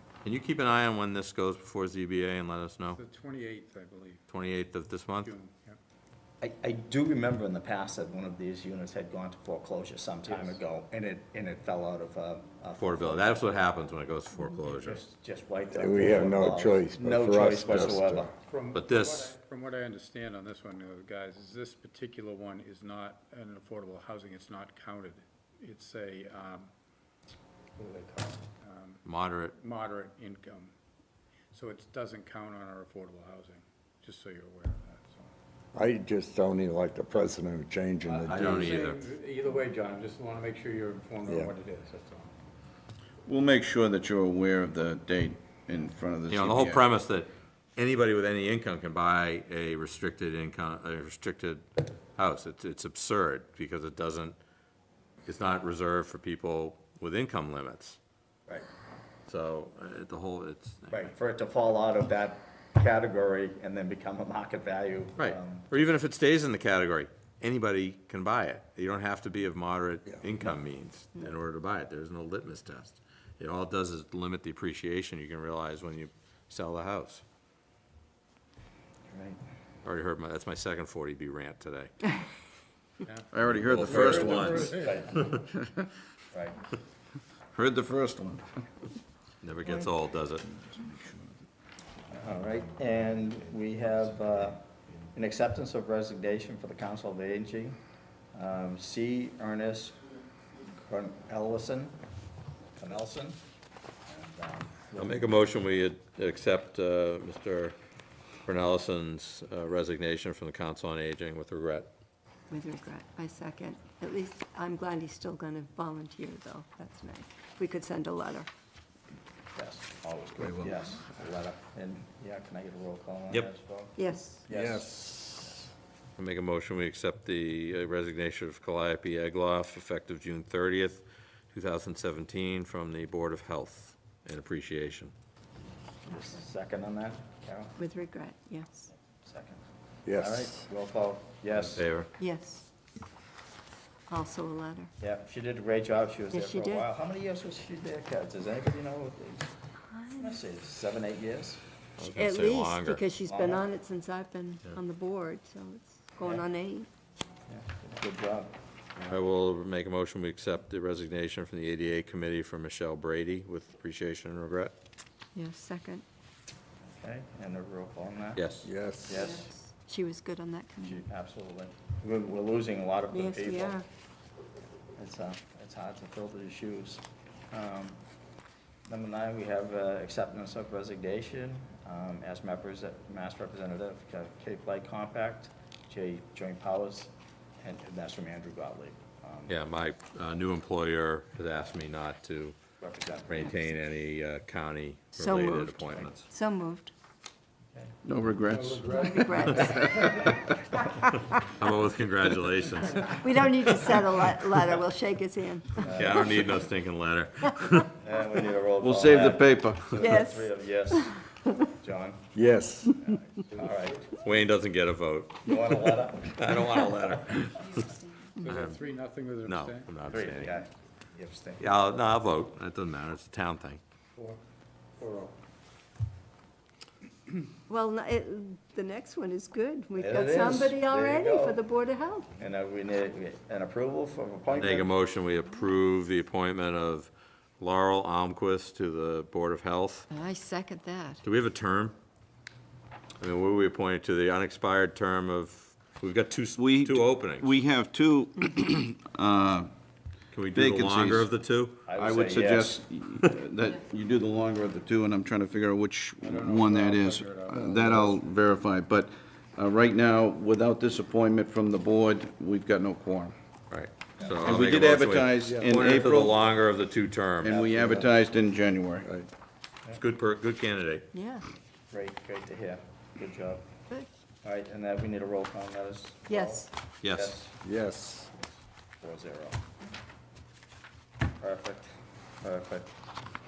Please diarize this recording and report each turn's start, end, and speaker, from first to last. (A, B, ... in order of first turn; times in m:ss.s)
0:00.2-0:03.0 A
0:02.9-0:04.2 B
0:04.3-0:05.3 A
0:05.1-0:05.8 B
0:06.4-0:13.5 C
0:10.2-0:10.6 B
0:12.8-0:15.0 A
0:14.8-0:18.3 C
0:15.7-0:18.3 D
0:18.4-0:26.7 B
0:18.7-0:19.3 A
0:27.8-0:30.7 B
0:29.0-0:29.5 A
0:31.5-0:35.3 B
0:35.7-0:38.8 D
0:38.0-0:42.3 B
0:38.3-0:39.1 A
0:41.2-0:41.5 D
0:43.2-0:46.9 E
0:46.3-0:54.4 A
0:55.2-0:58.0 A
0:59.3-1:01.1 A
1:00.9-1:05.7 C
1:05.2-1:17.2 A
1:19.1-1:19.4 C
1:19.8-1:22.1 A
1:23.0-1:25.0 B
1:23.3-1:24.7 E
1:23.6-1:25.3 A
1:24.7-1:25.2 C
1:25.5-1:25.9 E
1:27.5-1:28.6 E
1:29.4-1:30.4 A
1:30.6-1:31.3 E
1:32.1-1:37.8 C
1:38.3-1:40.0 C
1:40.7-1:42.0 C
1:42.8-1:43.4 C
1:44.1-1:45.4 C
1:45.0-1:47.8 A
1:48.4-1:51.9 A
1:52.5-1:58.5 F
1:59.6-2:05.7 C
2:00.4-2:00.7 D
2:04.0-2:04.4 F
2:04.5-2:05.7 D
2:06.2-2:15.1 A
2:16.0-2:17.8 C
2:17.8-2:18.8 F
2:18.9-2:19.6 C
2:20.0-2:20.5 D
2:20.2-2:21.8 C
2:21.6-2:22.1 A
2:22.2-2:22.7 F
2:24.1-2:24.9 F
2:25.0-2:29.5 C
2:26.3-2:26.9 F
2:29.9-2:30.4 F
2:30.1-2:31.6 C
2:32.0-2:33.0 A
2:32.1-2:36.9 F
2:33.2-2:33.7 C
2:37.5-2:38.5 C
2:39.0-2:44.7 A
2:45.3-2:46.0 F
2:46.8-2:48.5 C
2:48.4-2:48.7 A
2:48.6-2:49.2 D
2:49.0-2:49.5 C
2:49.1-2:51.0 F
2:50.8-2:53.8 C
2:53.1-2:53.8 F
2:55.0-2:58.0 C
2:58.9-3:09.5 C
3:09.5-3:12.6 A
3:12.8-3:13.5 C
3:13.2-3:16.3 A
3:15.2-3:16.9 F
3:18.0-3:20.1 E
3:18.5-3:20.5 B
3:18.9-3:19.9 F
3:21.6-3:23.3 A
3:23.2-3:26.3 F
3:25.8-3:26.5 C
3:26.0-3:27.9 A
3:27.9-3:34.2 C
3:28.8-3:30.1 E
3:30.0-3:31.5 F
3:32.3-3:32.9 D
3:34.2-3:37.9 A
3:35.4-3:37.1 C
3:38.4-3:40.0 B
3:38.5-3:38.8 A
3:39.4-3:40.6 A
3:40.1-3:41.7 C
3:41.6-3:43.8 A
3:45.0-3:45.3 B
3:47.7-3:52.3 F
3:50.0-3:51.6 C
3:52.4-3:54.9 C
3:54.5-4:00.1 A
4:00.1-4:01.2 F
4:01.2-4:01.9 A
4:03.2-4:07.5 A
4:06.5-4:09.7 E
4:10.3-4:11.8 A
4:10.5-4:11.3 E
4:11.9-4:12.8 C
4:11.9-4:23.4 E
4:16.2-4:18.2 B
4:23.7-4:27.6 A
4:24.2-4:24.4 C
4:24.4-4:26.4 E
4:25.4-4:25.7 D
4:27.4-4:29.1 E
4:27.4-4:28.1 C
4:29.0-4:29.3 D
4:30.0-4:31.1 A
4:31.1-4:31.5 F
4:31.9-4:33.6 C
4:34.4-4:37.6 C
4:36.3-4:36.7 F
4:37.0-4:37.3 A
4:37.6-4:38.3 D
4:39.0-4:39.6 C
4:41.4-4:41.9 C
4:42.4-4:42.9 C